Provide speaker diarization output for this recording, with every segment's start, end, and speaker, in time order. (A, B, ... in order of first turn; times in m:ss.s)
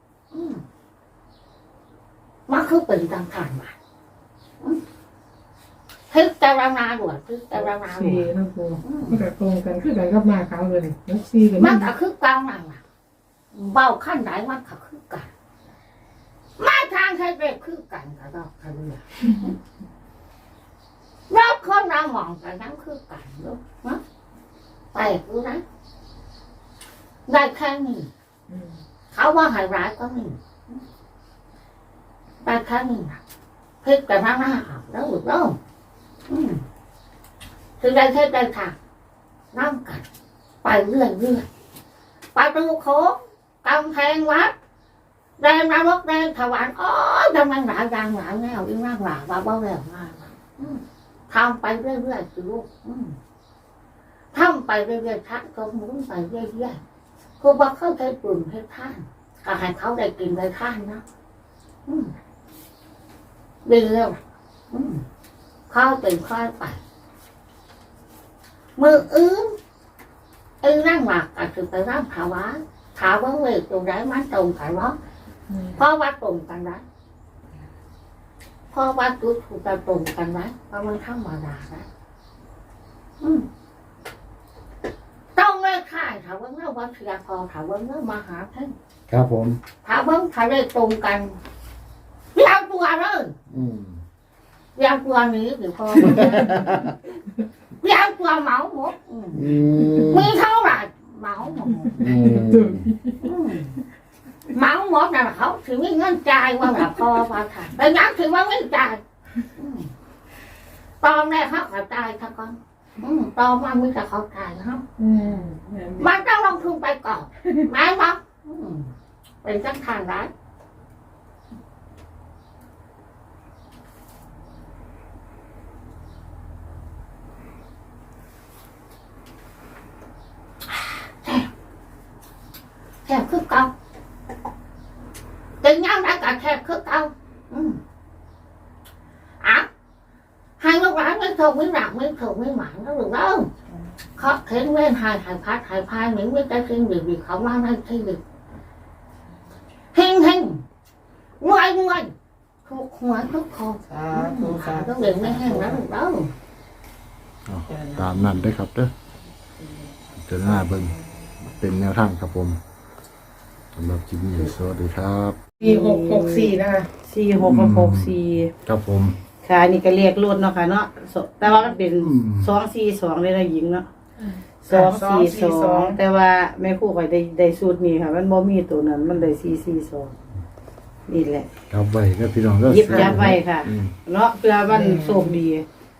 0:00.3-0:00.6 A
0:02.5-0:03.7 A
0:06.1-0:08.3 A
0:07.5-0:11.9 B
0:08.8-0:09.2 A
0:11.6-0:12.8 A
0:13.5-0:15.3 A
0:16.6-0:19.5 A
0:21.3-0:24.0 A
0:24.9-0:25.6 A
0:27.3-0:28.1 A
0:29.1-0:30.7 A
0:32.4-0:33.2 A
0:33.8-0:35.6 A
0:36.3-0:36.6 A
0:37.8-0:38.7 A
0:39.5-0:40.0 A
0:40.6-0:41.4 A
0:42.3-0:44.5 A
0:45.4-0:53.2 A
0:54.3-0:56.8 A
0:57.4-1:01.0 A
1:01.9-1:02.1 A
1:03.6-1:04.2 A
1:04.7-1:05.0 A
1:05.7-1:06.8 A
1:08.8-1:09.5 A
1:10.6-1:15.0 A
1:15.7-1:16.8 A
1:18.7-1:21.8 A
1:23.2-1:23.5 A
1:25.4-1:28.7 A
1:29.1-1:29.6 C
1:29.8-1:31.4 A
1:32.3-1:33.3 A
1:33.5-1:34.0 C
1:34.8-1:36.9 A
1:36.1-1:36.9 C
1:37.8-1:39.5 A
1:39.3-1:40.3 C
1:40.0-1:42.0 A
1:41.9-1:42.9 C
1:42.0-1:43.2 B
1:43.2-1:43.8 A
1:44.5-1:49.0 A
1:49.6-1:49.9 A
1:51.0-1:54.8 A
1:55.0-1:56.2 B
1:56.0-1:58.9 A
1:59.4-2:00.3 A
2:11.2-2:11.5 A
2:13.0-2:13.7 A
2:15.6-2:17.8 A
2:19.4-2:19.7 A
2:20.6-2:23.5 A
2:24.2-2:28.2 A
2:29.9-2:30.6 A
2:31.4-2:32.1 A
2:32.6-2:36.3 A
2:33.9-2:35.8 B
2:37.5-2:38.9 C
2:37.7-2:38.5 B
2:40.2-2:42.6 C
2:40.4-2:40.9 B
2:43.7-2:45.4 C
2:45.6-2:46.9 B
2:45.6-2:48.5 D
2:47.4-2:49.1 C
2:49.4-2:53.8 D
2:52.0-2:52.5 C
2:54.6-3:00.1 D
2:54.7-2:56.0 B
3:01.1-3:01.5 D
3:01.7-3:03.9 C
3:02.6-3:05.6 D
3:02.9-3:03.1 B
3:04.7-3:05.4 B